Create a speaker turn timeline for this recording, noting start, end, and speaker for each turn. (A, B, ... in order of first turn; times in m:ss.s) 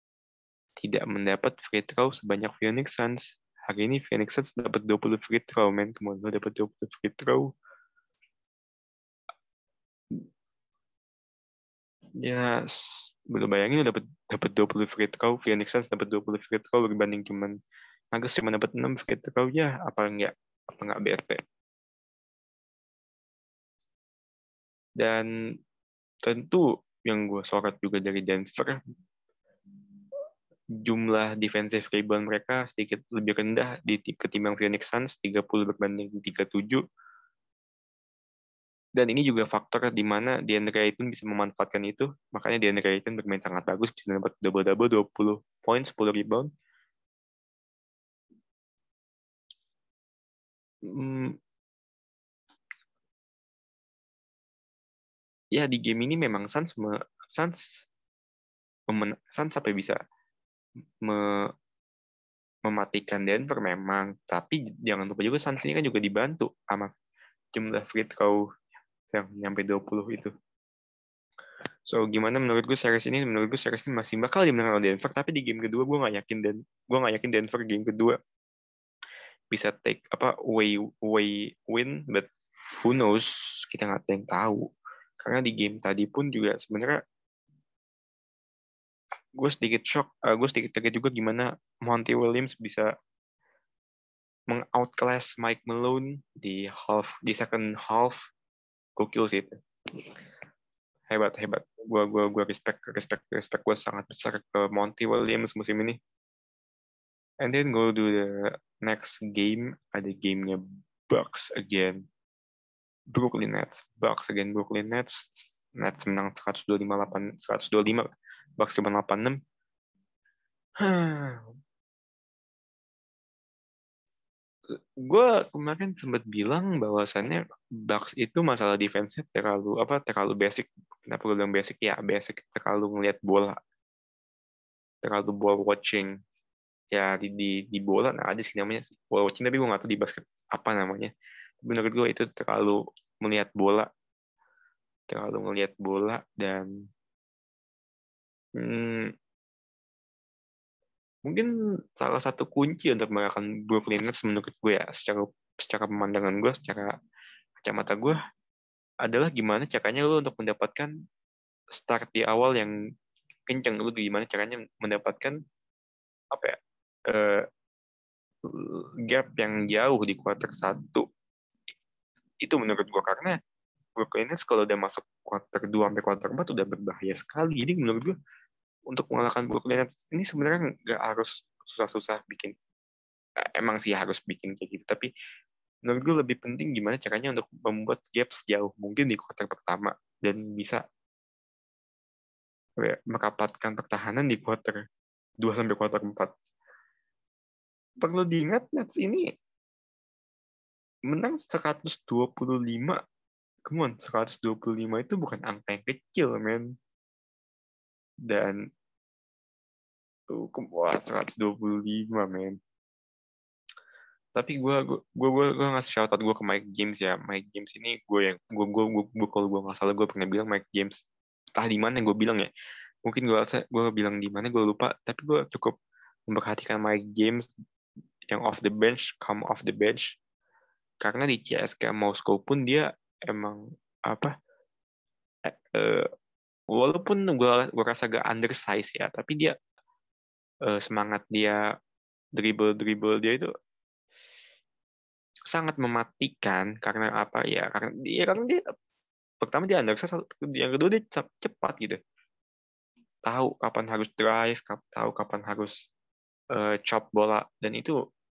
0:00.8-0:07.5 A
0:12.2-0:17.6 A
0:18.1-0:21.4 A
0:25.0-0:25.6 A
0:26.2-0:28.8 A
0:30.8-0:36.8 A
0:38.9-0:46.5 A
0:50.8-0:51.4 A
0:55.5-0:57.9 A
0:58.9-1:00.0 A
1:01.0-1:01.5 A
1:02.6-1:06.9 A
1:07.5-1:08.4 A
1:09.1-1:10.3 A
1:11.8-1:18.2 A
1:19.5-1:22.3 A
1:22.8-1:24.7 A
1:25.2-1:27.0 A
1:29.4-1:32.8 A
1:34.5-1:38.2 A
1:39.0-1:40.1 A
1:41.1-1:46.0 A
1:47.4-1:52.0 A
1:53.1-1:59.4 A
2:00.8-2:01.5 A
2:04.7-2:13.5 A
2:15.0-2:16.1 A
2:16.9-2:23.9 A
2:25.1-2:26.8 A
2:28.5-2:29.1 A
2:31.2-2:36.9 A
2:37.6-2:38.2 A
2:39.0-2:40.9 A
2:41.7-2:42.7 A
2:43.5-2:45.4 A
2:46.3-2:47.5 A
2:48.4-2:51.0 A
2:52.4-2:53.3 A
2:54.0-2:58.1 A
2:58.9-3:02.5 A
3:03.4-3:05.1 A
3:05.8-3:10.8 A
3:12.8-3:14.8 A
3:15.4-3:16.3 A
3:18.0-3:19.3 A
3:21.0-3:23.0 A
3:23.6-3:26.7 A
3:28.2-3:28.6 A
3:30.3-3:32.6 A
3:34.3-3:41.0 A
3:41.5-3:42.5 A
3:43.0-3:45.7 A
3:46.3-3:47.5 A
3:48.3-3:50.2 A
3:51.0-3:54.3 A
3:55.4-3:56.1 A
3:56.7-3:59.5 A
4:00.6-4:01.6 A
4:02.4-4:03.5 A
4:05.5-4:08.7 A
4:09.4-4:12.0 A
4:13.2-4:15.8 A
4:16.5-4:18.0 A